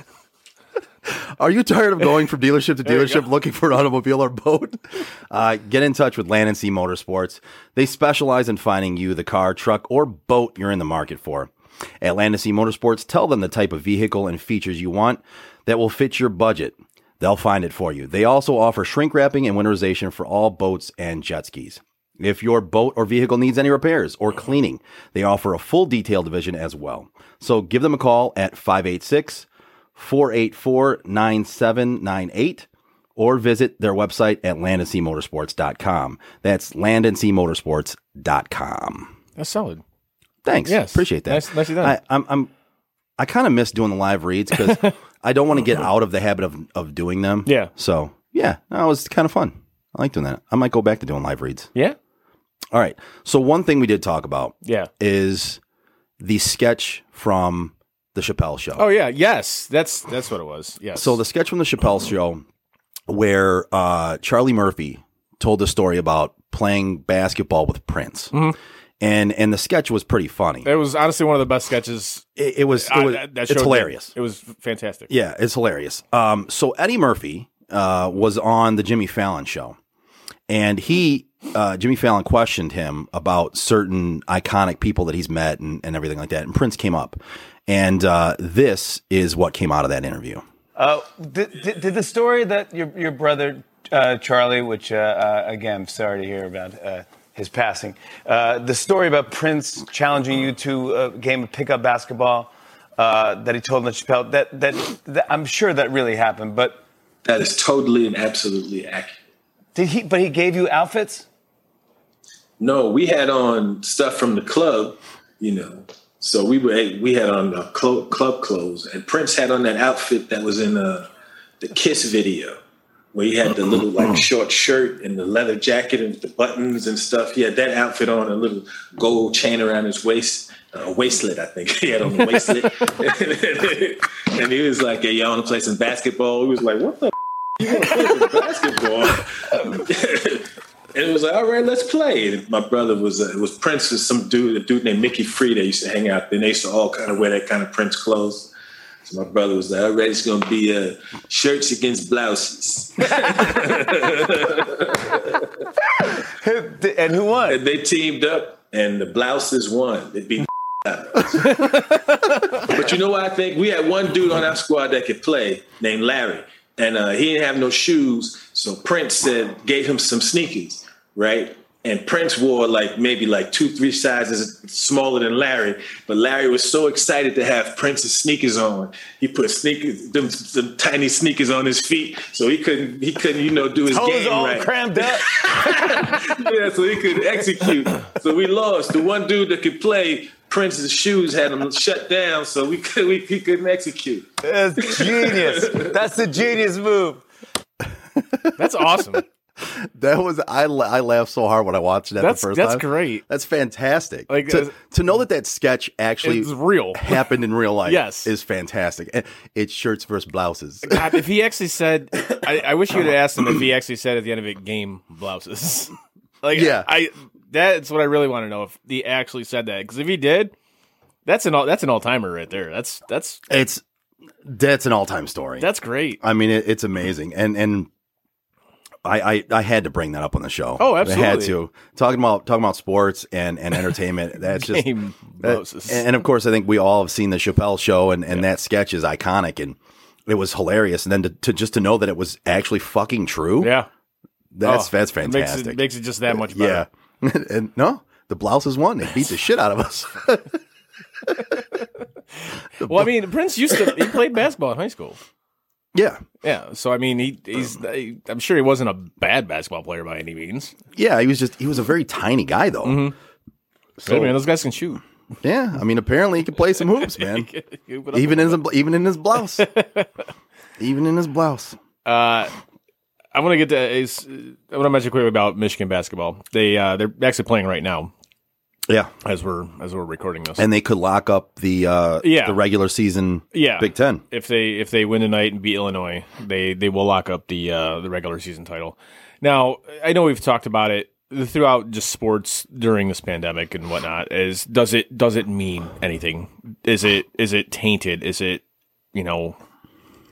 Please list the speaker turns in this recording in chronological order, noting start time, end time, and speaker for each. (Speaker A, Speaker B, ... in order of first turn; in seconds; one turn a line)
Speaker A: 1.1-39.1
Speaker B: 2.9-3.2
Speaker B: 39.4-39.8
Speaker A: 40.4-42.5
Speaker B: 40.6-42.0
Speaker A: 43.2-51.7
Speaker B: 44.6-44.9
Speaker B: 47.5-47.7
Speaker A: 52.7-55.6
Speaker B: 54.6-54.9
Speaker A: 56.2-58.9
Speaker B: 58.8-61.2
Speaker A: 60.9-62.4
Speaker A: 63.1-68.4
Speaker A: 69.0-70.7
Speaker B: 70.6-75.1
Speaker A: 72.4-74.1
Speaker A: 75.1-79.8
Speaker A: 80.5-90.4
Speaker C: 90.8-106.8
Speaker D: 107.2-109.2
Speaker C: 109.7-111.3
Speaker D: 112.6-121.1
Speaker D: 121.6-122.6
Speaker D: 123.1-148.5
Speaker D: 149.0-155.2
Speaker C: 156.4-157.6
Speaker D: 157.4-161.6
Speaker D: 162.7-194.2
Speaker C: 183.9-185.2
Speaker C: 194.4-197.2
Speaker D: 194.8-195.9
Speaker A: 198.2-198.5
Speaker B: 198.6-199.2
Speaker A: 199.6-211.2
Speaker B: 202.2-203.2
Speaker B: 204.3-204.7
Speaker B: 206.2-207.3
Speaker B: 207.8-208.3
Speaker B: 210.9-220.5
Speaker A: 216.5-216.9
Speaker B: 221.2-223.4
Speaker A: 223.5-223.8
Speaker A: 224.4-225.7
Speaker B: 225.6-226.2
Speaker A: 226.2-227.9
Speaker A: 229.0-234.9
Speaker B: 230.8-231.6
Speaker B: 234.5-236.1
Speaker A: 235.4-243.7
Speaker B: 243.6-243.9
Speaker A: 244.5-245.8
Speaker B: 244.6-246.9
Speaker A: 246.4-250.5
Speaker A: 252.8-253.1
Speaker B: 252.8-255.2
Speaker A: 253.7-254.0
Speaker A: 255.9-256.2
Speaker B: 256.4-260.7
Speaker A: 260.9-263.1
Speaker B: 262.8-263.1
Speaker A: 264.0-264.3
Speaker B: 264.0-265.0
Speaker A: 265.4-267.5
Speaker B: 267.0-268.6
Speaker A: 268.1-269.7
Speaker B: 269.6-270.1
Speaker A: 270.8-271.8
Speaker B: 272.0-272.5
Speaker B: 273.3-278.1
Speaker B: 279.2-280.6
Speaker A: 280.6-284.2
Speaker B: 282.2-282.6
Speaker B: 283.5-298.6
Speaker B: 299.1-299.6